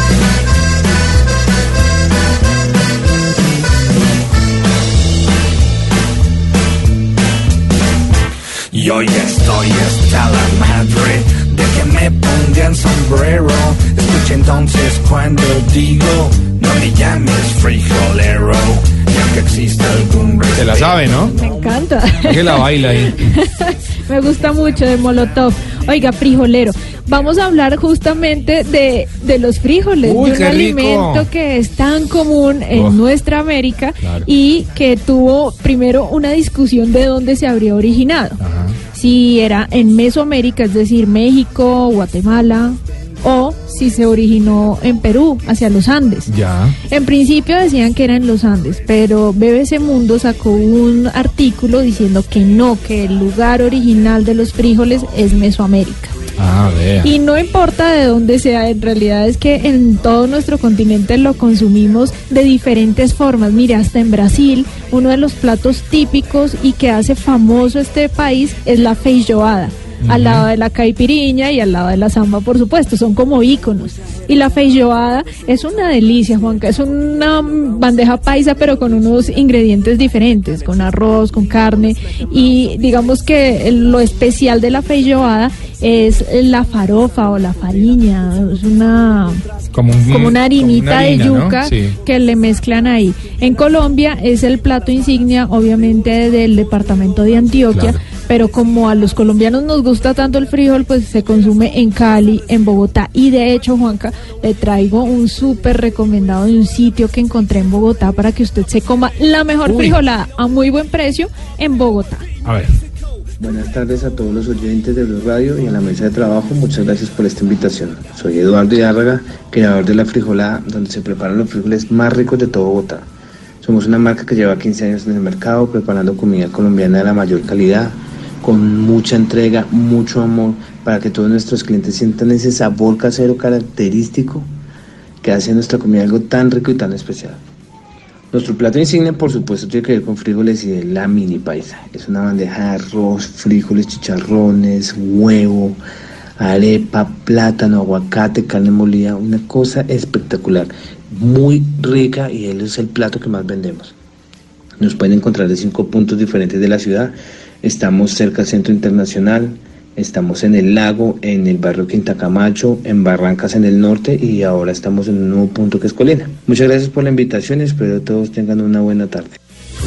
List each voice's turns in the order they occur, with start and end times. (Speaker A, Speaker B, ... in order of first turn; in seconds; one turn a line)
Speaker A: 8.7-21.6
Speaker B: 20.6-21.4
Speaker C: 21.3-38.4
Speaker B: 22.2-23.1
Speaker B: 30.0-31.3
Speaker B: 32.7-33.0
Speaker B: 38.4-38.8
Speaker C: 38.9-46.3
Speaker B: 46.3-46.8
Speaker C: 46.9-56.1
Speaker B: 56.4-57.1
Speaker C: 57.0-89.4
Speaker B: 70.0-70.5
Speaker B: 89.7-92.0
Speaker C: 90.1-112.3
Speaker B: 97.7-98.0
Speaker B: 109.7-110.0
Speaker B: 112.4-112.7
Speaker D: 113.4-123.1
Speaker D: 123.6-134.5
Speaker D: 135.2-137.4
Speaker D: 138.3-145.8
Speaker D: 146.4-153.9
Speaker D: 154.8-169.4